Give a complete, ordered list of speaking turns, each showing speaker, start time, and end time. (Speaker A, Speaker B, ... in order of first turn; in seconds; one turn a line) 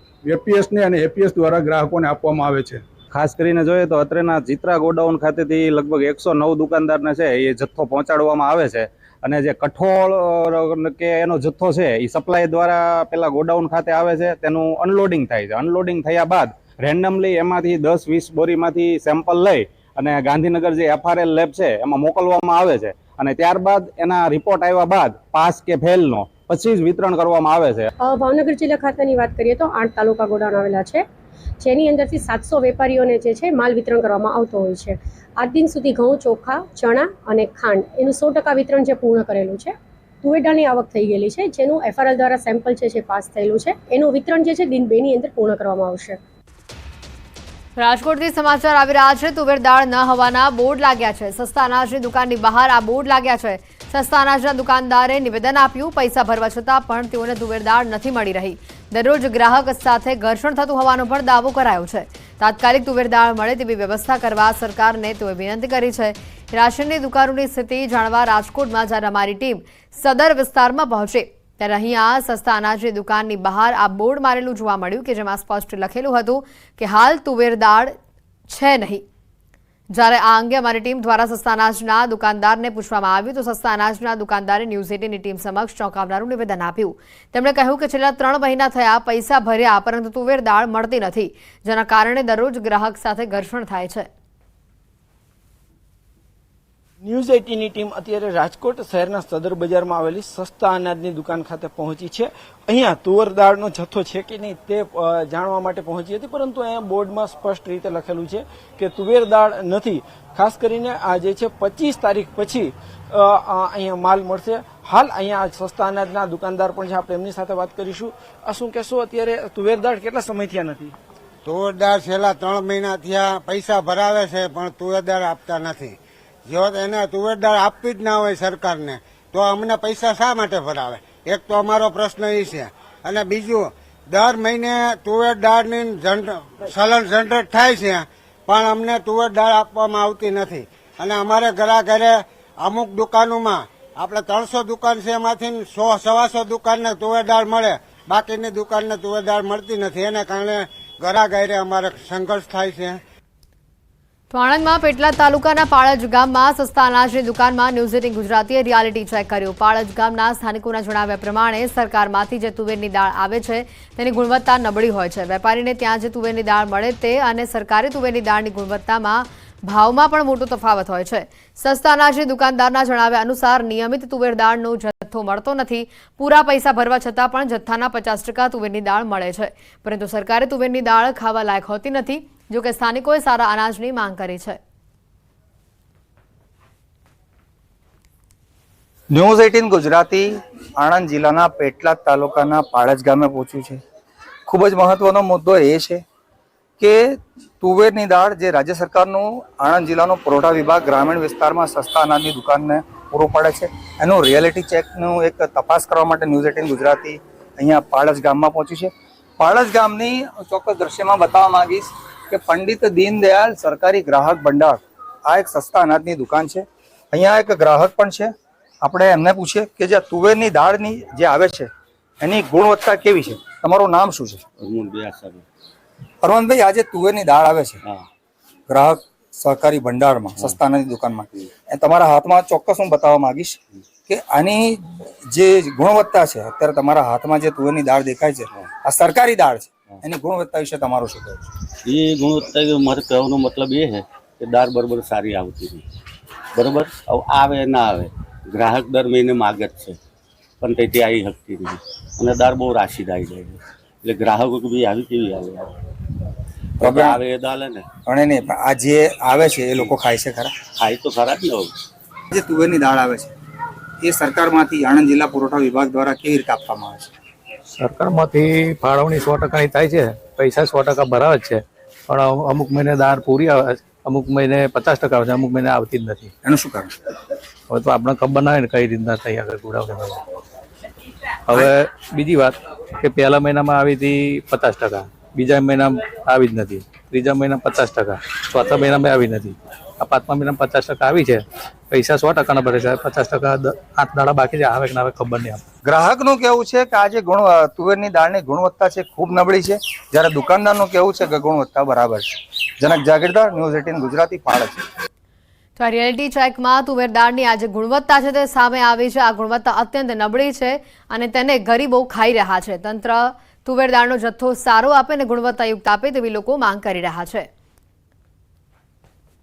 Speaker A: 0.2-2.8
Speaker B: 3.1-27.9
Speaker C: 28.0-31.1
Speaker C: 31.6-46.2
Speaker D: 47.8-77.9
Speaker D: 78.5-79.0
Speaker D: 79.9-94.1
Speaker E: 97.0-120.9
Speaker F: 121.5-126.0
Speaker F: 126.5-153.0
Speaker D: 154.3-184.6
Speaker G: 189.1-193.8
Speaker G: 194.5-196.0
Speaker G: 196.8-221.7
Speaker G: 222.2-224.4
Speaker H: 224.6-225.4
Speaker G: 226.2-227.8
Speaker G: 228.7-241.5
Speaker H: 241.8-245.8
Speaker H: 246.6-250.0
Speaker H: 250.6-255.7
Speaker H: 256.8-257.9
Speaker G: 256.8-257.2
Speaker G: 258.1-260.5
Speaker H: 260.8-261.7
Speaker G: 262.3-263.3
Speaker G: 264.0-267.1
Speaker I: 267.8-276.3
Speaker G: 276.4-276.9
Speaker I: 277.7-280.2
Speaker I: 281.5-295.6
Speaker G: 295.9-302.3
Speaker G: 302.8-304.8
Speaker D: 305.8-317.5